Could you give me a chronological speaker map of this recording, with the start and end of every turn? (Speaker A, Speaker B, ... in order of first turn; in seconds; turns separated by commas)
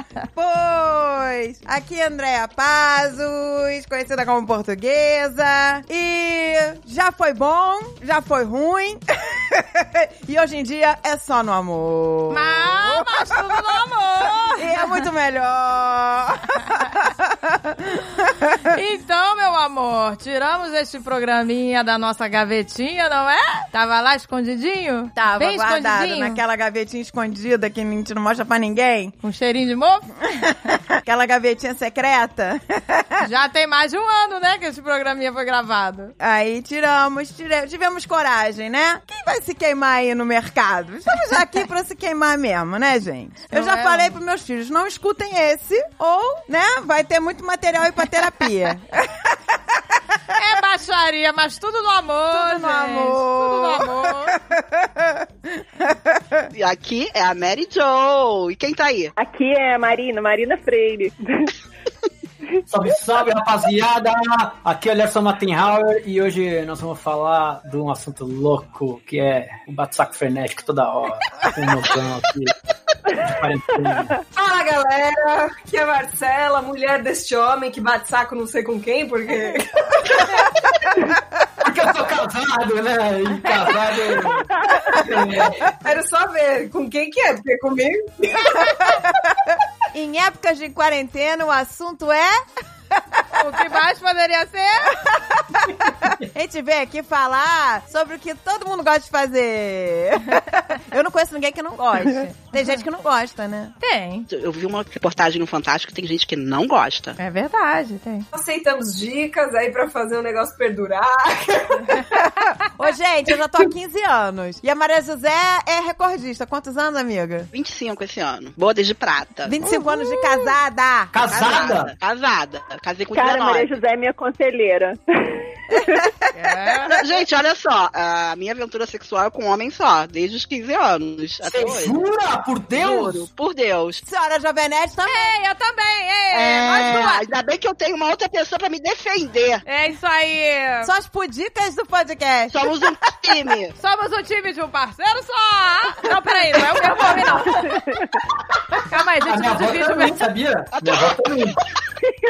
Speaker A: 0.3-13.6, Speaker B: 12.3-15.0, Speaker A: 14.5-18.7, Speaker B: 18.6-26.4, Speaker A: 25.1-29.1, Speaker B: 29.2-30.2, Speaker A: 30.5-33.2, Speaker B: 33.2-36.1, Speaker A: 36.2-49.4, Speaker B: 43.5-44.1, Speaker B: 50.3-54.4, Speaker A: 52.3-55.2, Speaker A: 55.8-56.5, Speaker C: 56.5-59.1, Speaker D: 59.1-61.5, Speaker E: 62.7-72.5, Speaker E: 73.1-74.2, Speaker F: 74.3-80.2, Speaker E: 81.6-85.7, Speaker F: 85.4-89.0, Speaker A: 89.9-93.2, Speaker B: 93.3-95.0, Speaker A: 95.0-103.7, Speaker B: 102.0-102.7, Speaker B: 103.8-104.3, Speaker C: 104.3-107.2, Speaker B: 107.2-108.3, Speaker F: 108.3-111.9, Speaker A: 112.1-117.5, Speaker C: 117.5-119.6, Speaker A: 119.4-121.1, Speaker E: 121.1-121.9, Speaker C: 121.2-123.8, Speaker D: 123.1-126.0, Speaker A: 125.7-126.0, Speaker B: 126.3-126.9, Speaker C: 126.8-132.0, Speaker E: 131.4-133.3, Speaker C: 132.7-134.0, Speaker A: 134.0-135.3, Speaker B: 135.1-137.2, Speaker C: 136.3-139.6, Speaker B: 139.7-140.9, Speaker A: 140.8-142.5, Speaker C: 142.5-143.7, Speaker B: 143.8-147.7, Speaker D: 147.5-148.2, Speaker E: 148.5-151.6, Speaker B: 148.9-150.3, Speaker C: 150.7-151.6